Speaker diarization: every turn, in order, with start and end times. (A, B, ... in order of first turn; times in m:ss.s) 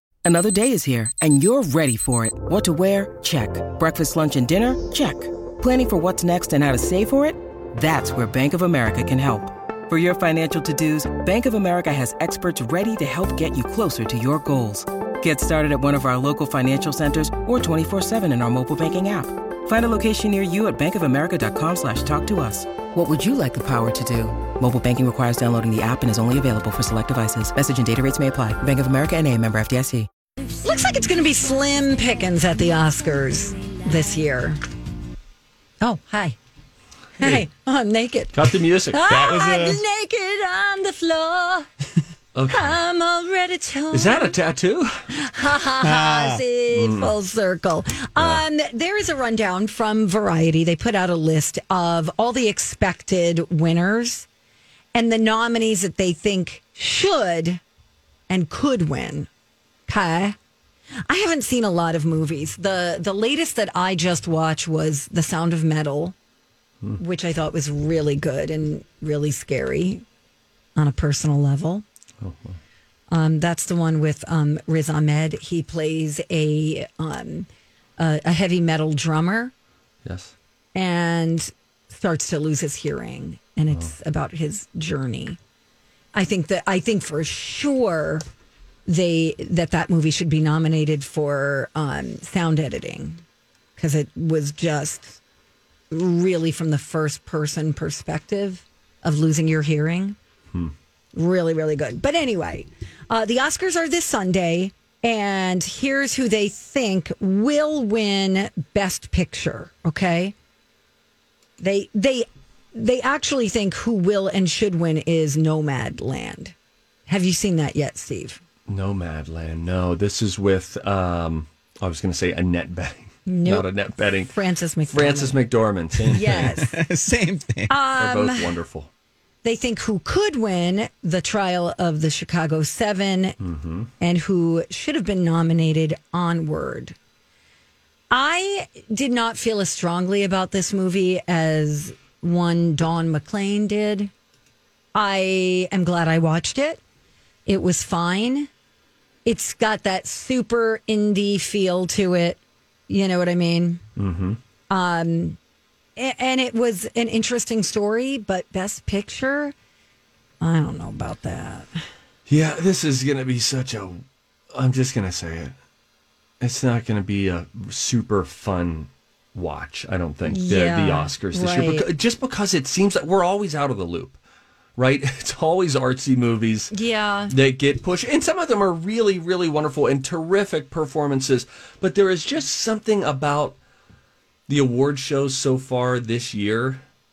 0:00.2-0:30.1 A
0:30.6-0:34.6 B
0:35.8-0:36.4 B
0:37.2-0:41.7 B
0:38.3-0:39.0 C
0:39.1-0:39.8 D
0:42.4-0:42.8 C
0:42.5-0:44.4 B
0:43.9-0:44.9 C
0:45.1-0:54.3 B
0:45.8-0:46.4 D
0:46.7-0:47.1 C
0:48.2-0:48.4 C
0:54.9-0:57.6 B
0:58.3-0:59.3 B
0:59.9-1:00.4 B
1:01.1-1:06.2 B
1:07.0-1:10.0 B
1:10.8-1:11.8 B
1:12.2-1:12.6 C
1:13.1-1:19.5 B
1:20.0-1:20.3 C
1:20.8-1:25.4 B
1:26.1-1:28.2 B
1:28.9-1:33.2 B
1:33.8-1:35.2 B
1:35.9-1:40.2 B
1:41.1-1:50.4 B
1:51.6-1:56.6 B
1:57.1-1:58.4 B
1:58.7-2:04.3 C
2:03.3-2:05.4 B
2:04.9-2:06.6 C
2:06.1-2:06.8 B
2:06.1-2:07.7 D
2:07.7-2:08.6 B
2:08.0-2:08.9 C
2:09.4-2:13.4 B
2:13.4-2:13.9 C
2:14.0-2:17.0 B
2:18.1-2:24.1 B
2:25.0-2:26.8 B
2:27.5-2:28.5 B
2:29.2-2:33.8 B
2:34.0-2:34.4 C
2:34.7-2:35.4 B
2:36.0-2:39.5 B
2:40.4-2:41.7 B
2:42.3-2:45.6 C
2:46.4-2:54.2 C
2:50.3-2:51.9 B
2:54.8-2:56.7 C
2:56.7-2:57.4 B
2:57.3-3:03.6 C
3:04.5-3:06.8 C